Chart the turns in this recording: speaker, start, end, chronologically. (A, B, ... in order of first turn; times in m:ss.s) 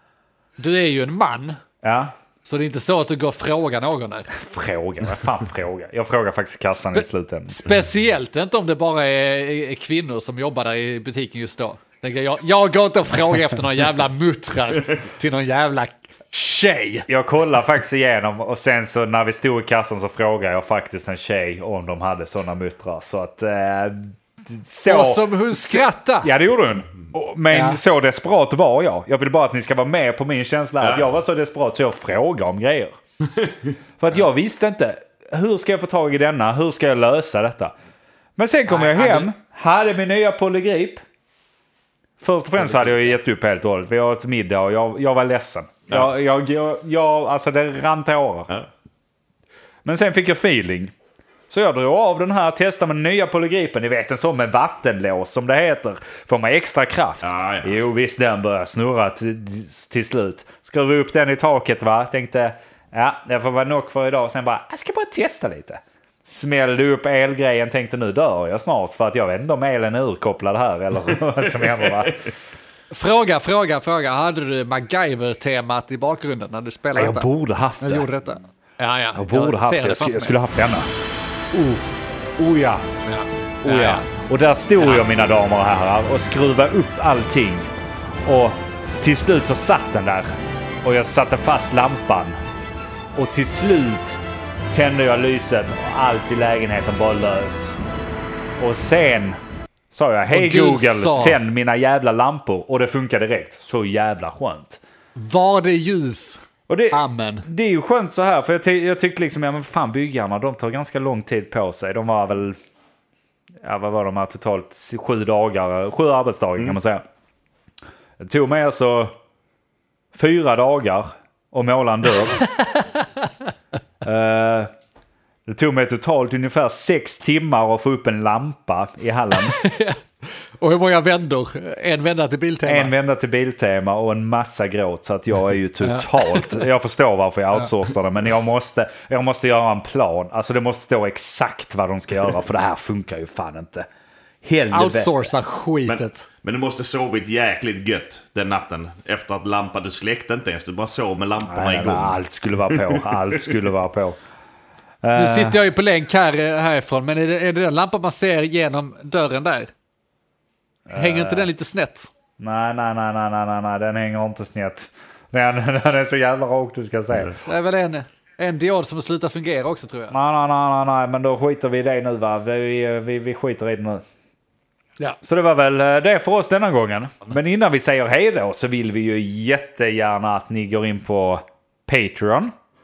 0:00.6-0:01.6 A
0:01.8-0:02.1 B
0:02.4-0:04.3 A
0:04.3-0:07.6 B
0:06.9-0:17.1 A
0:17.1-0:33.0 B
0:24.9-0:26.3 A
0:27.5-0:27.8 A
0:30.8-0:31.2 C
0:33.3-0:33.7 C
0:34.0-0:37.7 B
0:38.4-0:41.0 B
0:38.7-0:39.3 A
0:42.2-0:48.5 B
0:42.6-0:43.2 A
0:49.8-0:50.9 B
0:51.5-1:12.3 B
0:57.2-0:57.8 C
1:11.7-1:12.1 C
1:12.9-1:17.3 A
1:17.0-1:18.1 B
1:17.8-1:20.4 A
1:19.2-1:20.9 B
1:21.5-1:21.9 B
1:22.4-1:22.9 B
1:23.0-1:24.1 A
1:23.6-1:27.7 B
1:24.8-1:25.0 A
1:28.2-1:32.4 B
1:33.2-1:34.2 B
1:34.7-1:37.8 B
1:38.6-1:39.4 B
1:39.9-1:44.8 B
1:40.3-1:41.4 A
1:45.2-1:46.4 A
1:46.7-1:52.6 B
1:46.9-1:47.5 A
1:53.6-1:57.0 B
1:58.2-1:59.2 B
2:00.1-2:02.4 B
2:04.0-2:04.7 B
2:05.5-2:09.6 B
2:09.4-2:12.9 A
2:12.6-2:23.9 B
2:15.8-2:16.6 A
2:24.4-2:25.3 B
2:24.7-2:26.3 A
2:25.9-2:32.2 C
2:31.4-2:34.2 B
2:35.0-2:35.6 B
2:35.2-2:39.7 A
2:40.9-2:41.5 B
2:41.0-2:42.1 A
2:42.4-2:47.4 B
2:47.4-2:50.1 A
2:50.1-2:54.0 B
2:55.2-3:02.5 B